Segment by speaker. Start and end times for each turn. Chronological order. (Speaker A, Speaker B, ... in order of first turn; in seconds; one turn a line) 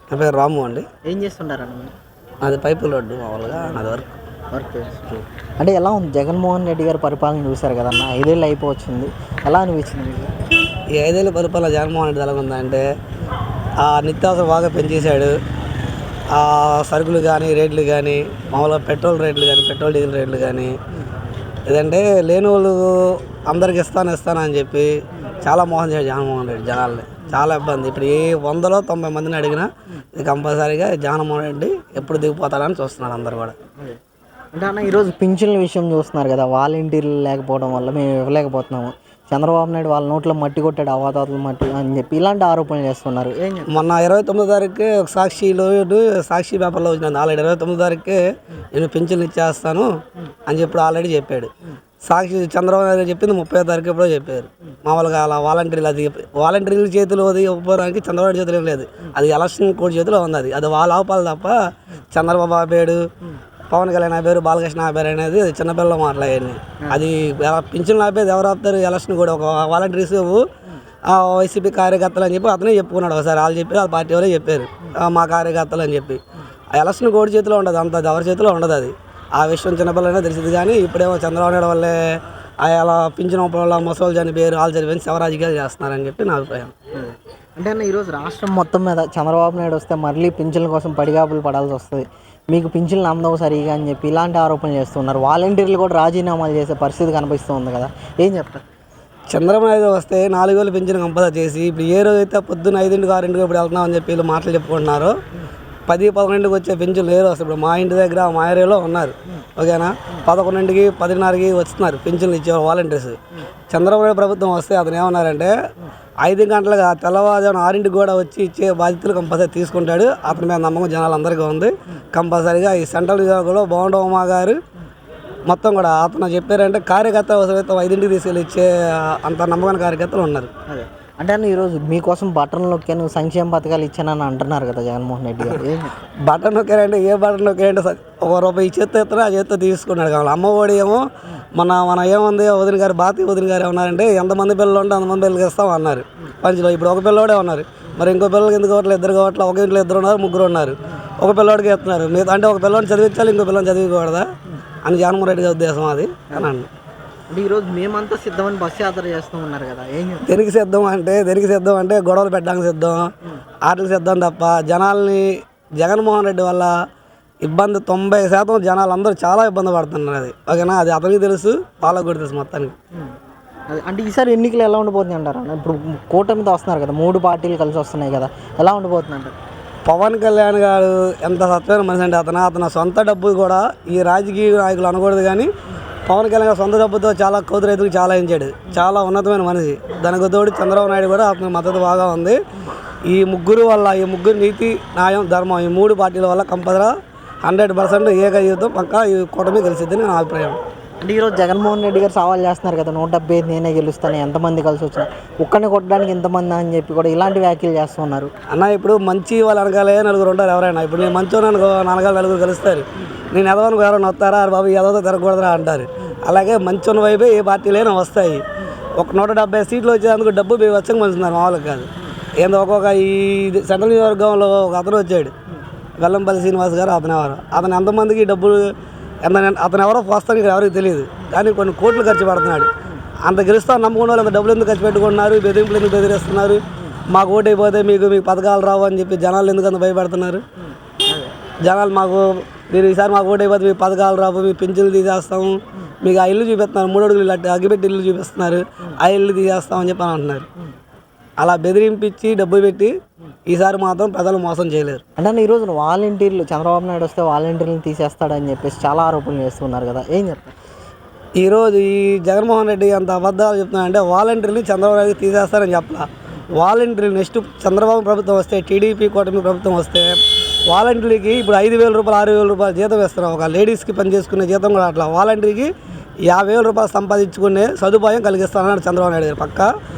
Speaker A: 0.1-0.9
Speaker B: 1.1-1.9
Speaker A: 2.4-4.1
Speaker B: 3.7-4.0
Speaker B: 4.5-10.3
Speaker A: 10.9-12.8
Speaker A: 13.8-15.3
Speaker A: 16.3-20.8
Speaker A: 21.7-33.6
Speaker B: 34.5-43.8
Speaker A: 43.7-48.2
Speaker A: 48.7-49.9
Speaker A: 50.5-51.5
Speaker A: 52.0-61.6
Speaker A: 62.1-63.1
Speaker A: 63.7-70.5
Speaker A: 71.1-76.2
Speaker A: 76.7-86.7
Speaker B: 87.0-98.6
Speaker A: 99.3-105.2
Speaker A: 105.9-113.2
Speaker A: 113.7-115.5
Speaker A: 116.2-124.6
Speaker A: 125.5-130.5
Speaker B: 130.7-136.0
Speaker A: 136.3-154.3
Speaker A: 154.8-156.7
Speaker B: 157.3-160.3
Speaker A: 160.2-163.1
Speaker A: 163.6-166.7
Speaker A: 167.4-172.8
Speaker B: 173.7-179.4
Speaker A: 179.8-185.5
Speaker A: 186.1-192.4
Speaker A: 193.1-196.9
Speaker A: 197.4-200.6
Speaker B: 201.0-208.3
Speaker A: 208.5-218.4
Speaker A: 219.0-225.3
Speaker A: 226.0-228.7
Speaker A: 229.2-232.7
Speaker A: 233.2-240.4
Speaker A: 241.6-250.5
Speaker A: 251.4-252.9
Speaker A: 253.5-255.0
Speaker B: 255.2-260.6
Speaker A: 261.4-270.2
Speaker A: 270.7-275.7
Speaker A: 276.3-279.7